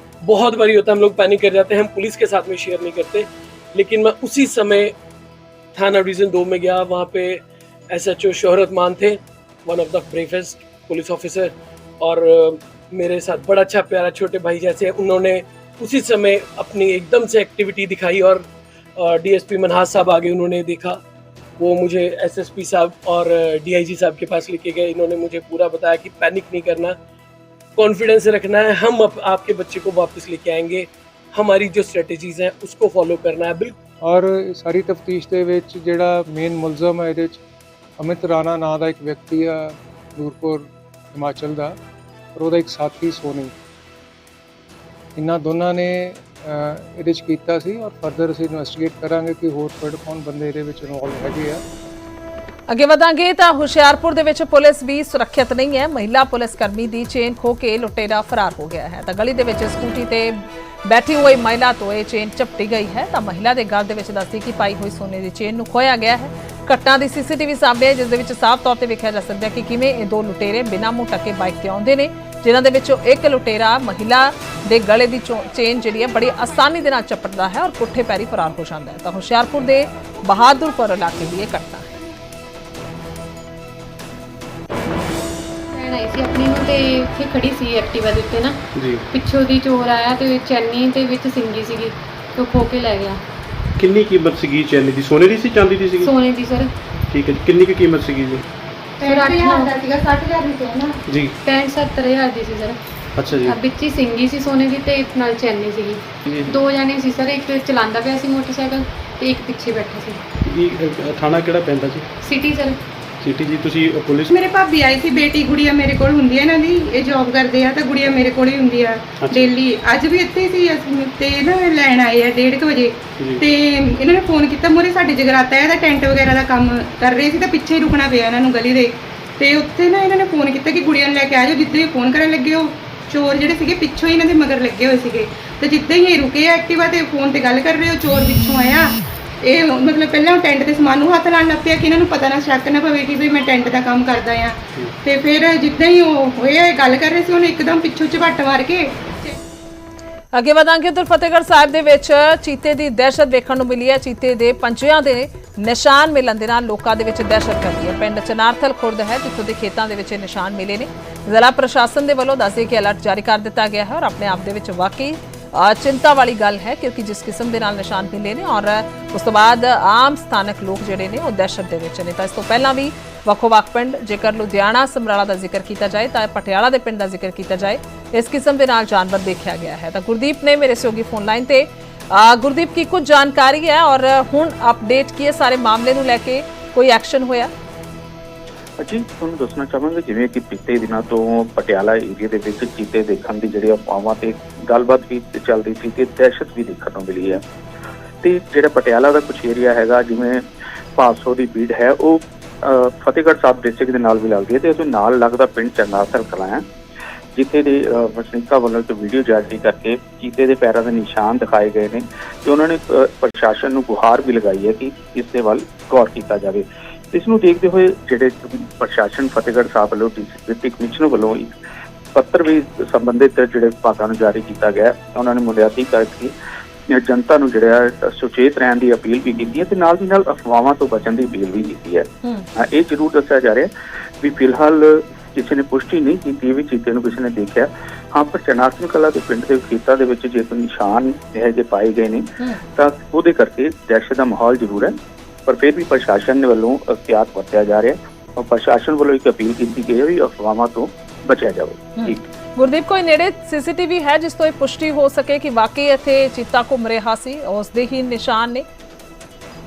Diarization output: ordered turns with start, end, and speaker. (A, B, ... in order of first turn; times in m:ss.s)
0:00.2-0:04.9 A
0:05.8-0:18.5 A
0:19.0-0:21.0 A
0:21.6-0:27.0 A
0:27.8-0:33.8 A
0:34.0-0:37.4 B
0:38.0-0:41.8 B
0:42.4-0:43.5 B
0:45.2-0:51.6 B
0:52.7-1:21.9 C
1:25.7-1:33.2 D
1:28.8-1:29.0 E
1:33.8-1:36.1 E
1:36.0-1:36.7 D
1:37.1-1:38.4 E
1:39.0-1:39.8 D
1:39.0-1:41.0 F
1:41.1-1:41.3 E
1:41.4-1:42.8 D
1:43.2-1:43.6 E
1:43.4-1:50.2 D
1:50.4-1:52.1 E
1:52.2-1:52.8 D
1:53.2-1:54.3 E
1:54.3-2:29.4 F
1:59.2-1:59.5 E
2:30.3-3:07.5 C
3:08.8-3:17.4 G
3:18.2-3:20.4 G
3:21.0-3:26.6 G
3:27.4-3:41.5 G
3:42.2-3:46.3 G
3:46.9-3:53.7 G
3:54.2-4:05.0 G
4:05.5-4:12.2 G
4:12.0-4:18.6 C